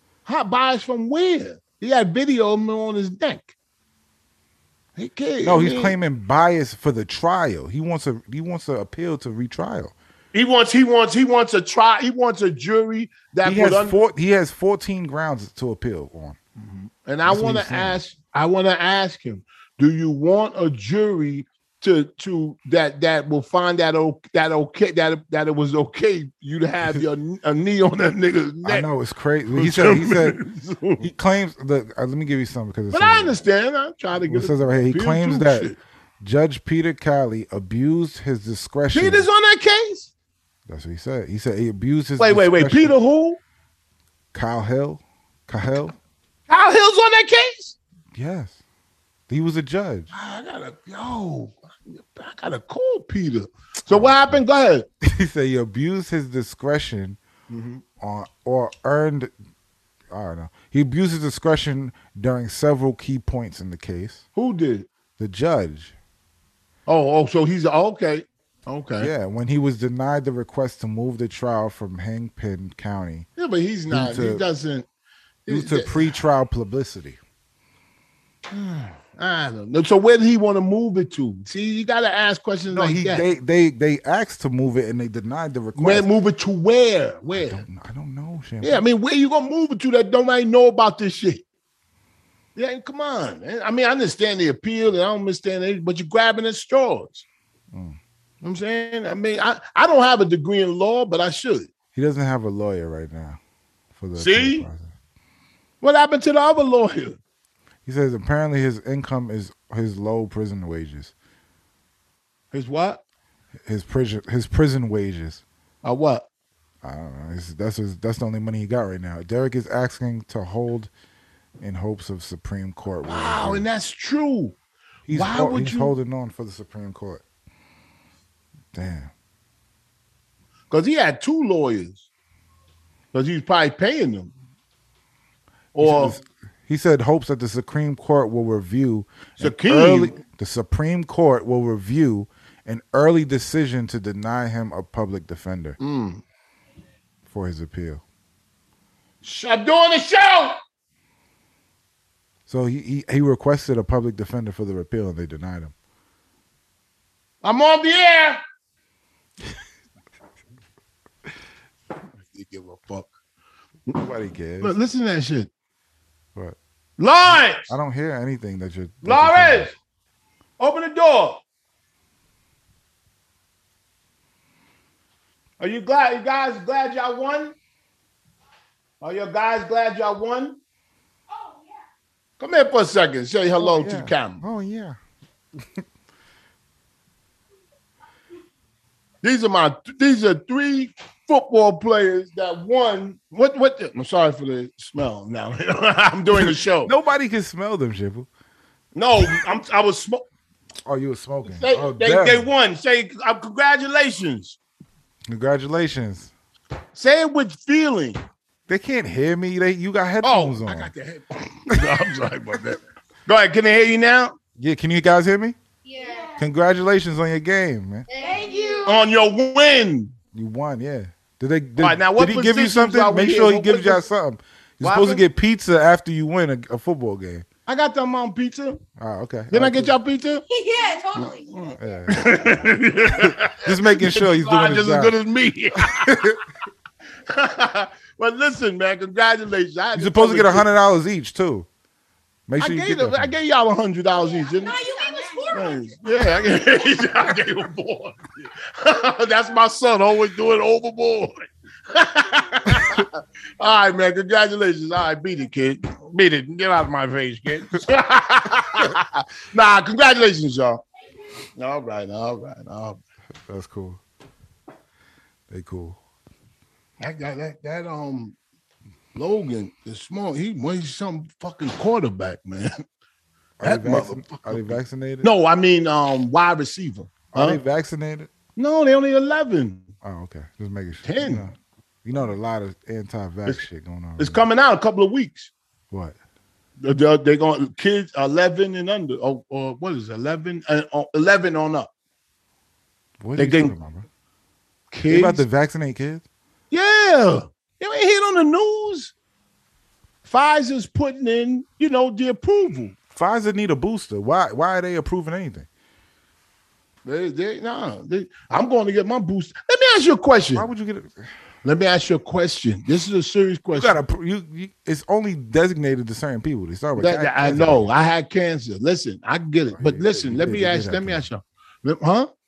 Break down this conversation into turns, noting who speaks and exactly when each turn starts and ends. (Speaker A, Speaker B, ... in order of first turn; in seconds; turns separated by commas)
Speaker A: 0.2-3.5, Speaker A: 5.0-6.0, Speaker B: 5.4-9.9, Speaker A: 10.3-13.9, Speaker B: 13.4-16.4, Speaker A: 16.6-28.9, Speaker B: 17.3-18.0, Speaker B: 28.6-30.4, Speaker A: 29.5-31.1, Speaker B: 31.0-33.4, Speaker A: 32.9-35.8, Speaker B: 34.2-39.3, Speaker A: 38.9-40.1, Speaker B: 40.7-42.9, Speaker A: 42.2-43.4, Speaker B: 44.3-45.9, Speaker A: 46.5-47.8, Speaker B: 48.1-48.5, Speaker B: 49.3-50.1, Speaker A: 50.1-54.9, Speaker B: 53.9-54.4, Speaker B: 55.0-57.2, Speaker A: 57.5-57.8, Speaker B: 58.0-59.3, Speaker B: 60.1-64.2, Speaker A: 64.3-64.9, Speaker B: 65.2-65.9, Speaker A: 66.9-69.1, Speaker B: 69.0-73.3, Speaker A: 73.4-74.8, Speaker B: 73.9-74.4, Speaker A: 75.5-76.1, Speaker B: 75.5-77.2, Speaker A: 78.5-83.3, Speaker B: 82.7-86.1, Speaker A: 85.8-87.6, Speaker B: 87.3-88.8, Speaker A: 88.6-91.4, Speaker A: 92.5-97.2, Speaker B: 97.7-98.0, Speaker A: 98.4-101.7, Speaker B: 101.9-103.4, Speaker B: 103.9-104.9, Speaker A: 104.2-104.7, Speaker A: 105.8-107.2, Speaker B: 107.8-111.1, Speaker A: 112.5-113.0, Speaker B: 113.7-115.4, Speaker A: 115.8-116.3, Speaker B: 116.8-120.9, Speaker B: 121.6-123.6, Speaker A: 123.0-124.5, Speaker B: 125.1-127.2, Speaker A: 125.1-125.9, Speaker B: 128.7-129.1, Speaker A: 130.7-132.0, Speaker A: 133.1-134.3, Speaker A: 135.7-136.2, Speaker B: 135.8-145.8, Speaker A: 139.4-140.2, Speaker A: 145.8-146.2, Speaker B: 147.2-148.0, Speaker A: 149.2-150.6, Speaker B: 152.5-155.7, Speaker A: 157.4-158.4, Speaker A: 162.2-163.1, Speaker B: 163.9-164.7, Speaker A: 164.6-165.5, Speaker A: 167.0-167.7, Speaker B: 167.3-169.7, Speaker A: 169.0-169.7, Speaker A: 170.6-171.4, Speaker A: 175.6-177.5, Speaker A: 179.0-180.6, Speaker A: 182.4-184.4, Speaker B: 183.6-185.0, Speaker A: 189.2-196.9, Speaker B: 196.3-198.3, Speaker A: 198.9-200.2, Speaker B: 200.8-202.5, Speaker A: 201.4-204.6, Speaker B: 205.3-206.3, Speaker A: 206.9-208.2, Speaker B: 208.7-210.9, Speaker A: 210.2-214.3, Speaker B: 211.7-212.0, Speaker B: 214.6-215.6, Speaker C: 215.8-216.4, Speaker B: 216.4-218.1, Speaker C: 218.1-219.0, Speaker A: 218.8-220.1, Speaker B: 220.3-227.4, Speaker A: 221.8-224.0, Speaker A: 224.8-225.2, Speaker A: 227.7-228.8, Speaker B: 229.0-229.9, Speaker A: 229.5-230.4, Speaker C: 230.5-231.8, Speaker A: 231.2-236.3, Speaker B: 231.8-235.2, Speaker B: 235.9-236.4, Speaker A: 237.3-240.7, Speaker B: 239.9-241.7, Speaker B: 242.5-243.3, Speaker A: 242.6-244.8, Speaker C: 244.3-246.4, Speaker A: 245.5-260.8, Speaker A: 261.6-263.0, Speaker B: 263.4-264.0, Speaker B: 265.5-266.0, Speaker A: 267.0-268.4, Speaker A: 269.1-272.8, Speaker B: 273.6-275.3, Speaker A: 273.6-277.6, Speaker B: 277.3-278.3, Speaker A: 278.6-279.9, Speaker B: 280.0-281.5, Speaker A: 281.0-281.4, Speaker B: 282.0-284.4, Speaker A: 284.2-285.5, Speaker B: 285.9-286.1, Speaker A: 286.8-291.9, Speaker B: 293.2-294.1, Speaker A: 293.4-293.7, Speaker A: 294.9-295.4, Speaker B: 295.1-296.2, Speaker A: 296.7-299.1, Speaker A: 300.2-302.9, Speaker B: 303.1-305.7, Speaker A: 307.1-310.7, Speaker B: 310.5-311.3, Speaker A: 311.6-314.0, Speaker B: 313.7-317.8, Speaker A: 317.0-322.3, Speaker B: 319.7-321.2